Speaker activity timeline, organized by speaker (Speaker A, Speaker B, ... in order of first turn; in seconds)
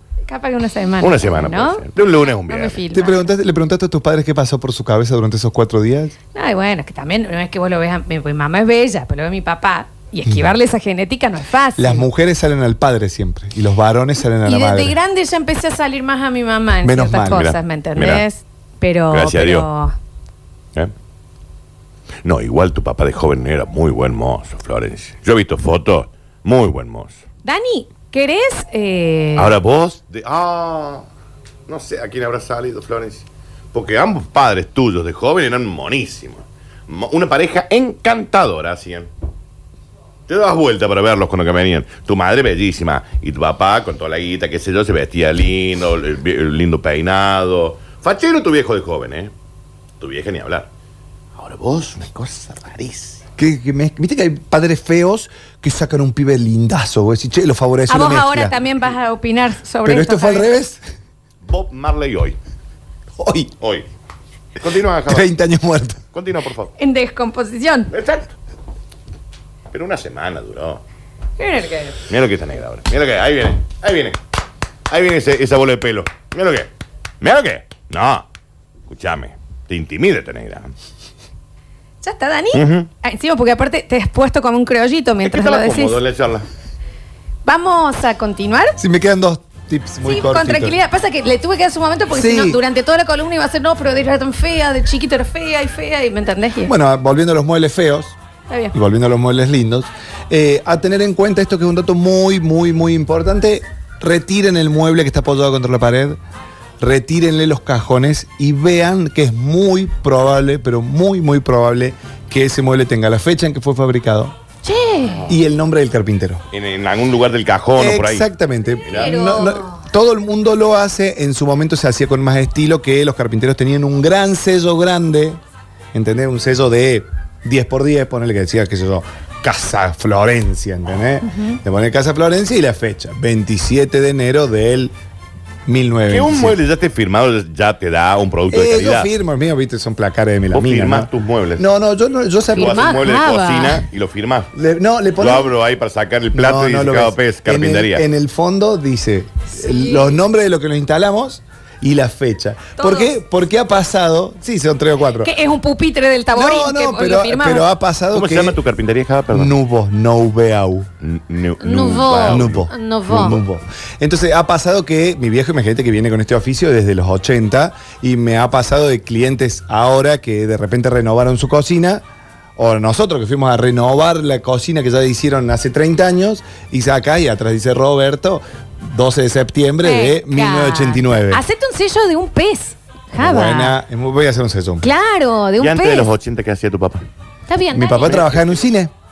Speaker A: 0.3-1.9, 2.4-3.2, 6.3-12.1, 14.4-19.9, 27.4-29.5, 57.9-60.5, 66.8-67.9, 71.4-72.0, 82.0-86.0, 87.4-88.8, 90.0-96.7, 98.5-98.7, 114.6-115.3, 118.8-119.8, 142.5-143.8, 149.5-150.2, 152.8-153.1, 155.2-157.7, 161.6-163.4, 179.8-183.8, 184.8-186.1, 187.5-188.2
Speaker B: 1.0-2.8, 17.3-18.2, 19.1-19.7, 22.2-27.2, 29.4-31.1, 31.7-39.1, 40.3-49.3, 50.0-50.7, 51.4-53.2, 61.4-62.4, 63.6-63.9, 64.6-65.3, 66.1-66.7, 67.9-68.3, 69.7-70.8, 72.1-74.2, 74.9-76.7, 77.2-78.3, 78.9-80.7, 82.5-82.9, 85.2-86.5, 115.0-115.3, 116.5-118.3, 118.9-119.1, 136.1-139.1, 140.5-141.6, 142.5-144.5, 145.2-148.0, 158.1-159.5, 161.0-162.7, 185.6-187.1, 188.0-188.7
Speaker C: 2.9-6.1, 11.8-14.9, 16.8-17.4, 53.4-58.5, 59.8-60.8, 63.2-63.5, 65.1-66.0, 88.8-90.8, 92.1-92.6, 96.6-98.2, 98.7-106.2, 106.8-114.3, 115.3-116.4, 117.8-125.4, 125.9-134.9, 135.7-136.6, 138.5-143.0, 144.5-145.5, 146.3-155.3, 156.3-158.6, 159.3-160.9, 162.3-172.0, 172.6-181.4, 183.2-184.8, 187.7-188.9